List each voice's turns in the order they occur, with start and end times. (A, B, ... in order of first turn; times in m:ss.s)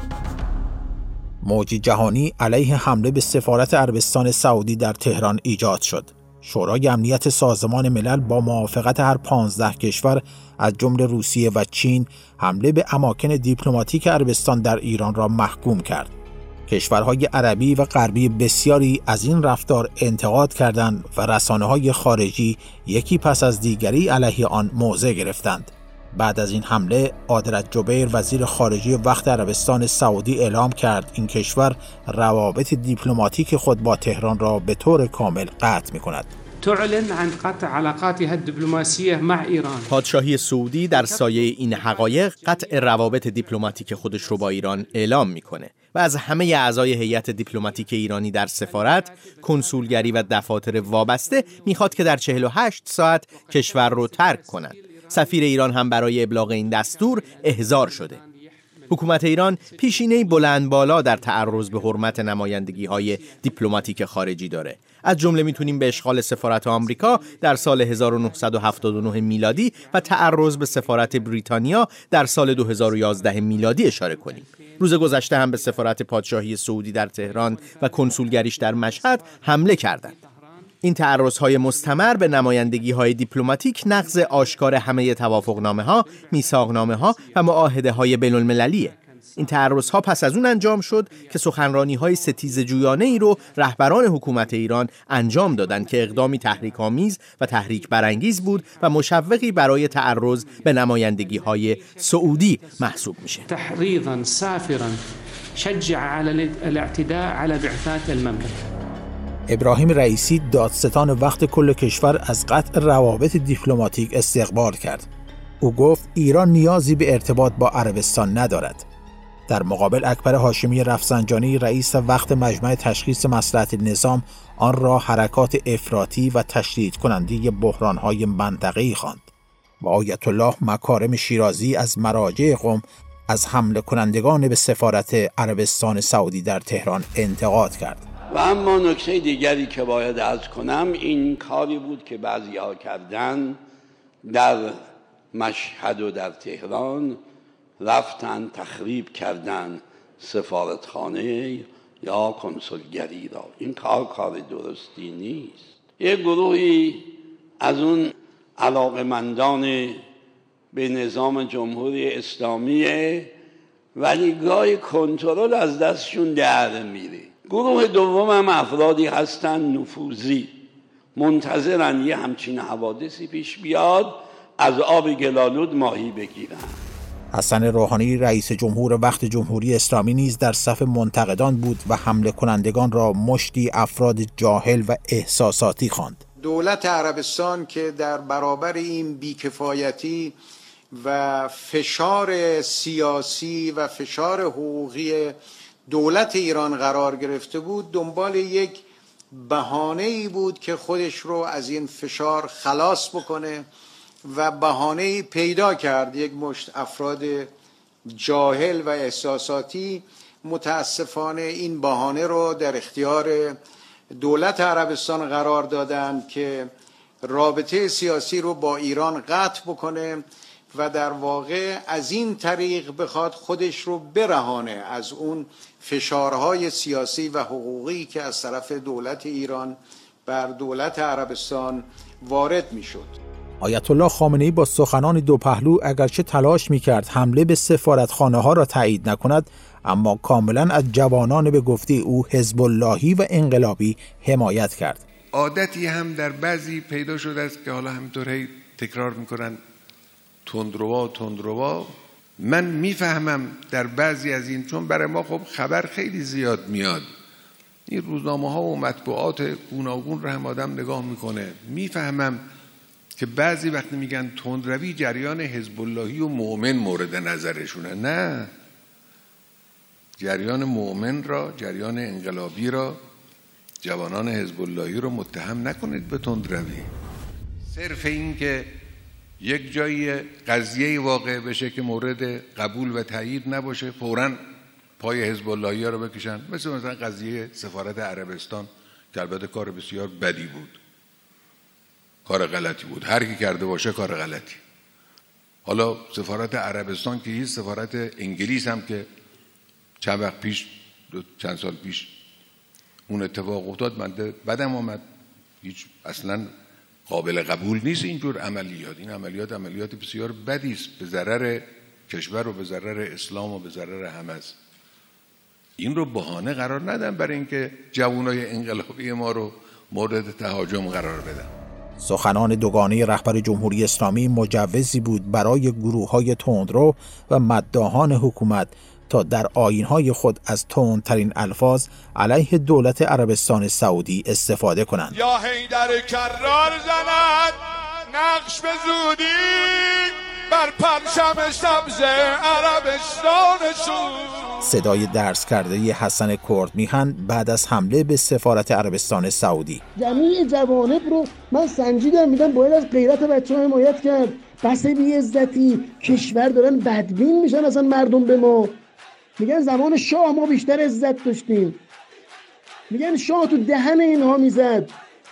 0:01.4-0:16.1 A
0:16.7-0:36.3 A
0:36.6-0:39.9 B
0:39.9-0:58.2 C
0:58.9-1:20.2 C
1:20.8-1:43.4 C
1:43.4-1:45.0 B
1:45.6-1:48.6 B
1:49.5-1:55.1 A
1:55.6-1:58.8 A
1:59.5-2:09.3 A
2:09.8-2:18.0 A
2:18.3-2:23.6 D
2:24.2-2:27.2 D
2:27.8-2:40.0 D
2:40.7-2:43.3 D
2:44.0-2:50.5 D
2:51.2-2:56.8 D
2:57.3-3:06.2 A
3:06.4-3:10.3 E
3:10.9-3:15.3 E
3:15.9-3:23.6 E
3:24.2-3:27.5 E
3:28.1-3:33.6 E
3:34.2-3:36.7 E
3:37.2-3:53.2 E
3:53.6-4:05.0 A
4:05.3-4:09.6 F
4:10.4-4:17.1 F
4:17.9-4:22.4 F
4:23.2-4:28.5 F
4:30.2-4:33.0 F
4:33.8-4:36.9 F
4:37.6-4:38.7 F
4:39.4-4:44.4 F
4:45.0-4:50.8 F
4:52.2-4:54.6 F
4:55.6-4:59.1 F
5:00.0-5:02.1 F
5:03.1-5:05.0 F
5:05.6-5:06.5 F
5:07.1-5:14.6 F
5:15.8-5:21.5 F
5:22.0-5:35.1 A
5:35.1-5:44.6 G
5:44.6-5:49.8 A
5:50.0-5:58.8 H
5:59.4-6:01.8 H
6:02.9-6:04.9 H